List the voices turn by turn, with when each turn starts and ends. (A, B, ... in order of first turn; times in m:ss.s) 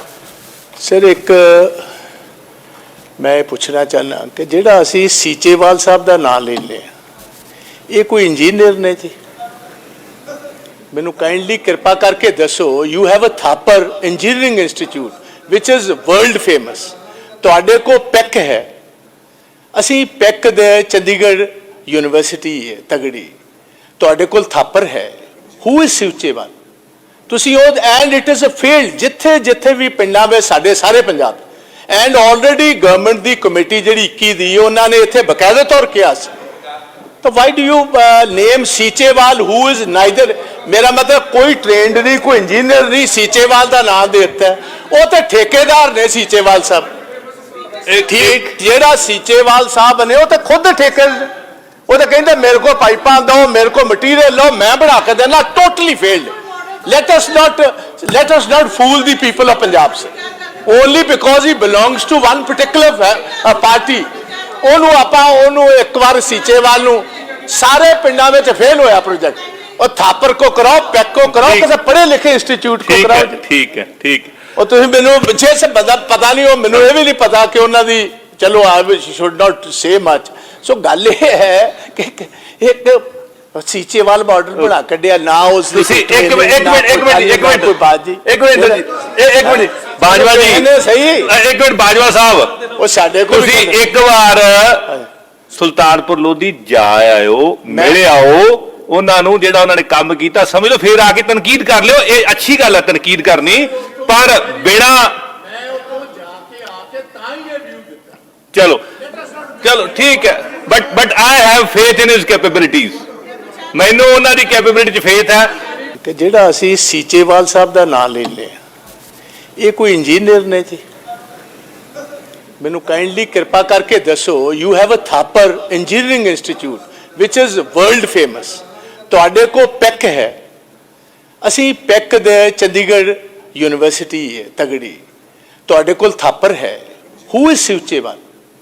0:00.8-0:01.8 A
0:03.2-0:06.9 A
0:07.9-0:09.1 A
0:10.9-0:18.6 A
0:19.7-0:23.3 A
0:24.0-0:26.5 A
0:27.3-0:36.3 A
0:37.2-0:46.9 A
0:47.9-0:48.4 B
0:48.1-0:51.2 A
0:51.9-0:56.3 A
0:56.8-1:00.1 A
1:00.6-1:04.1 A
1:04.6-1:13.4 A
1:11.3-1:11.7 B
1:12.8-1:14.3 B
1:14.6-1:28.8 A
1:25.7-1:27.7 B
1:28.2-1:30.6 B
1:29.4-1:31.3 A
1:31.2-1:32.6 B
1:32.8-1:33.8 A
1:33.3-1:35.0 B
1:35.5-1:45.2 B
1:37.7-1:38.0 A
1:48.5-1:48.8 B
1:49.6-1:53.0 B
1:53.7-1:55.5 B
1:56.0-1:58.6 A
1:59.6-2:00.8 A
2:02.6-2:10.3 A
2:11.4-2:15.0 A
2:15.7-2:18.2 A